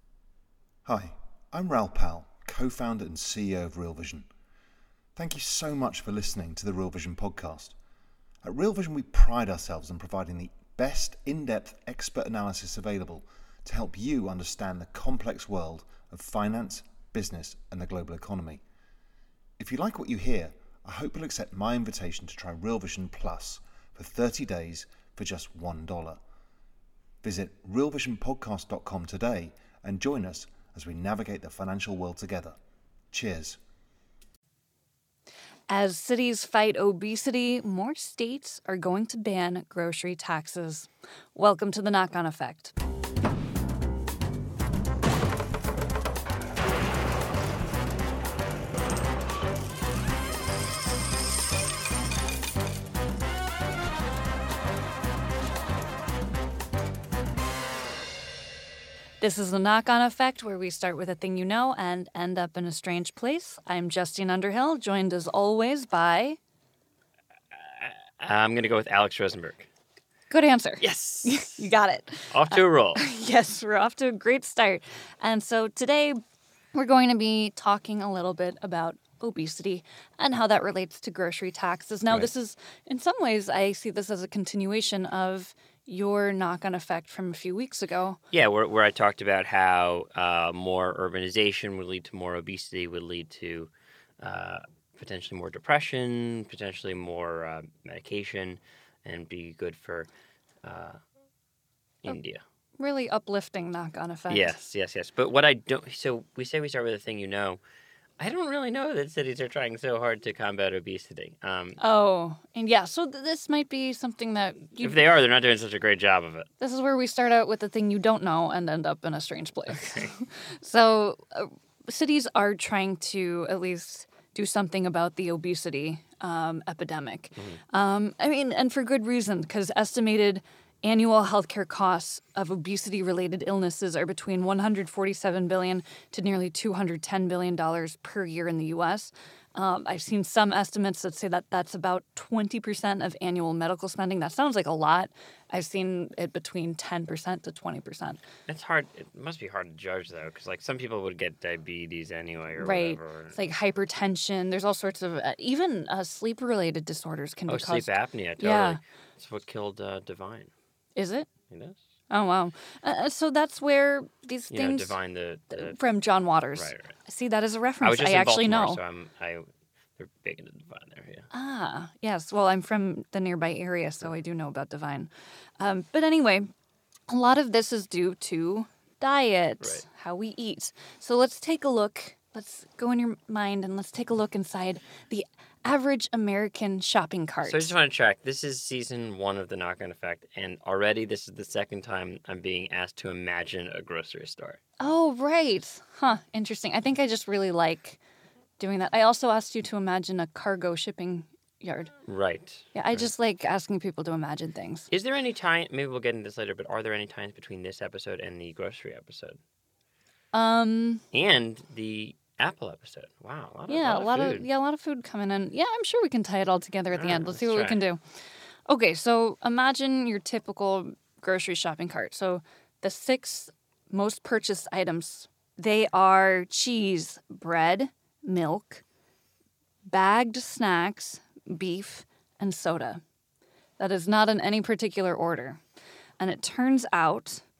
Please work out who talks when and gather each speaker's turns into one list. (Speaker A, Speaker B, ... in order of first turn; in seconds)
Speaker A: 0.8-4.3, 5.2-7.8, 8.4-18.6, 19.6-26.2, 27.2-32.6, 33.1-33.6
Speaker B: 35.7-42.7, 59.2-66.4, 70.3-76.2, 76.7-88.2, 102.8-104.6, 111.8-115.0, 116.6-148.2, 152.6-158.8, 161.0-161.3, 162.1-165.0, 165.5-168.8, 171.3-176.5, 177.1-187.7, 194.8-198.0, 198.6-201.9, 202.7-204.9, 210.3-211.0, 213.7-218.0, 218.7-228.8, 229.9-233.0, 233.8-235.6, 236.2-237.4
Speaker C: 67.8-69.7, 70.8-71.6, 72.3-73.0, 88.3-100.1, 100.6-101.0, 102.0-102.4, 104.3-107.6, 108.2-111.8, 114.8-116.5, 119.7-120.1, 148.5-153.4, 157.5-160.5, 161.5-161.8, 164.5-165.8, 166.6-167.0, 167.8-169.5, 170.0-171.3, 187.4-194.6, 202.1-203.1, 204.9-209.4, 211.1-214.5, 216.9-217.8